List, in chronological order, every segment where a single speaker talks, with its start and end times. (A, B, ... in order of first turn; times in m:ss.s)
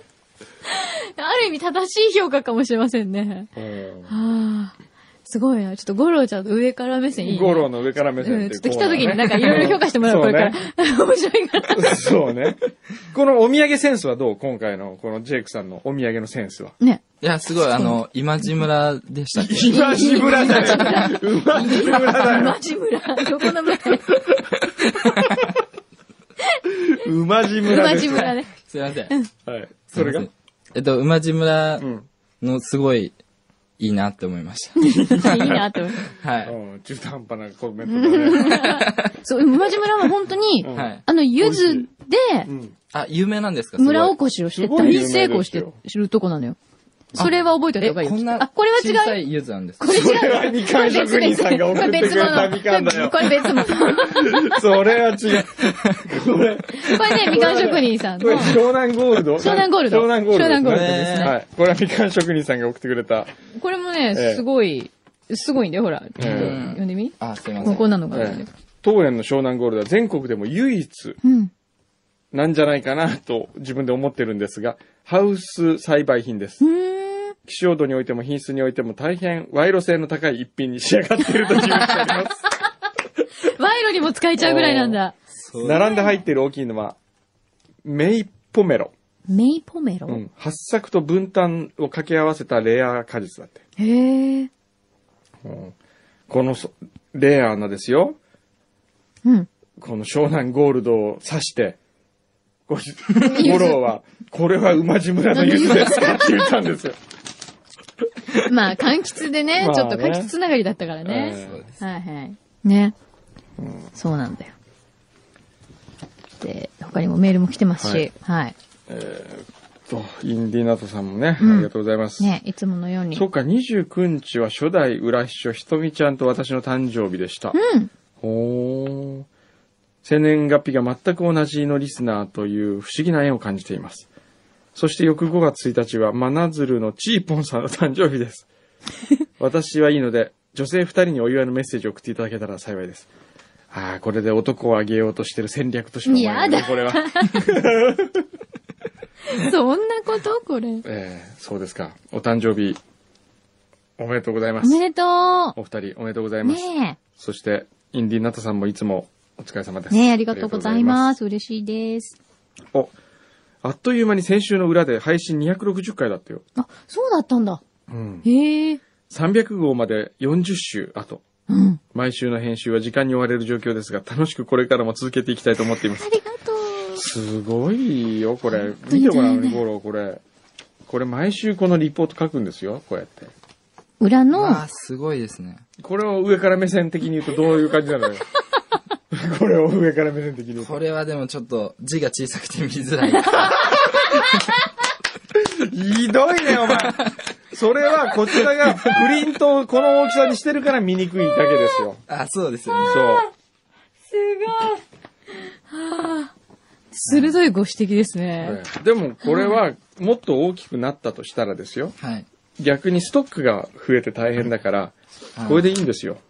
0:00.7-0:03.5 A
0:03.6-0:04.1 B
0:04.1-0:12.0 A
0:07.2-0:10.6 B
0:11.7-0:16.8 B
0:17.2-0:21.0 C
0:19.4-0:22.6 B
0:19.7-0:24.1 A
0:24.1-0:24.4 B
0:26.9-0:28.4 B
0:27.6-0:28.5 A
0:28.5-0:29.1 C
0:29.5-0:30.3 B
0:29.9-0:31.9 C
0:31.8-0:32.1 B
0:32.4-0:33.2 C
0:33.8-0:35.4 C
0:34.8-0:36.0 A
0:35.2-0:35.6 B
0:36.1-0:36.6 C
0:36.4-0:38.6 B
0:37.9-0:42.5 A
0:38.5-0:39.1 C
0:40.6-0:41.9 B
0:40.7-0:41.0 C
0:42.5-0:42.7 B
0:42.9-0:44.2 C
0:43.8-0:46.6 A
0:44.6-0:45.8 B
0:47.1-0:49.2 A
0:47.2-0:50.1 C
0:49.8-0:54.6 A
0:49.8-1:03.3 B
0:55.6-0:56.0 C
0:56.7-0:58.6 A
0:59.4-1:01.4 A
1:00.6-1:01.3 C
1:03.6-1:08.5 A
1:04.1-1:04.4 B
1:06.2-1:06.6 B
1:06.2-1:07.9 C
1:08.1-1:11.2 B
1:11.2-1:11.5 A
1:12.3-1:16.6 B
1:16.6-1:17.4 A
1:17.4-1:22.4 B
1:21.4-1:21.7 A
1:23.4-1:25.2 A
1:24.4-1:25.0 B
1:25.4-1:25.9 C
1:25.6-1:27.0 B
1:25.7-1:26.2 A
1:27.8-1:28.9 B
1:29.3-1:30.2 A
1:30.1-1:33.6 B
1:33.8-1:34.5 A
1:35.4-1:35.8 B
1:36.3-1:38.2 B
1:39.8-1:41.8 B
1:42.7-1:47.0 B
1:43.2-1:43.9 A
1:45.3-1:46.5 A
1:48.4-1:53.0 A
1:49.6-1:50.3 B
1:51.0-1:51.6 B
1:51.4-1:51.8 C
1:53.6-1:53.9 B
1:54.0-1:54.5 A
1:56.4-1:58.6 A
1:57.8-1:58.1 B
1:58.9-2:02.4 B
2:01.4-2:03.2 A
2:03.1-2:07.6 B
2:07.5-2:07.9 A
2:08.2-2:09.3 B
2:10.0-2:14.1 B
2:14.8-2:18.5 B
2:19.4-2:23.1 B
2:23.7-2:28.2 B
2:26.1-2:27.5 A
2:29.3-2:30.8 A
2:30.8-2:32.8 B
2:34.0-2:34.8 B
2:34.6-2:35.6 A
2:35.6-2:41.1 B
2:36.4-2:37.0 A
2:39.9-2:42.2 A
2:43.6-2:46.4 B
2:46.6-2:47.6 A
2:47.9-2:48.3 B
2:48.2-2:48.8 A
2:49.1-2:51.2 B
2:51.5-2:51.8 A
2:51.9-2:56.1 B
2:56.0-2:57.0 A
2:57.0-3:00.2 B
2:58.5-2:59.6 A
3:00.9-3:03.3 B
3:04.0-3:04.6 A
3:04.3-3:05.6 C
3:05.8-3:08.2 B
3:09.1-3:10.8 B
3:10.6-3:14.2 C
3:13.0-3:14.3 A
3:15.3-3:22.0 B
3:16.8-3:17.1 C
3:21.4-3:21.8 A
3:22.1-3:23.0 C
3:22.7-3:23.3 A
3:22.9-3:23.3 B
3:24.1-3:24.8 A
3:25.7-3:26.3 A
3:26.9-3:28.6 A
3:28.4-3:32.0 B
3:29.2-3:29.6 A
3:32.0-3:32.3 C
3:32.6-3:36.2 B
3:35.4-3:35.7 C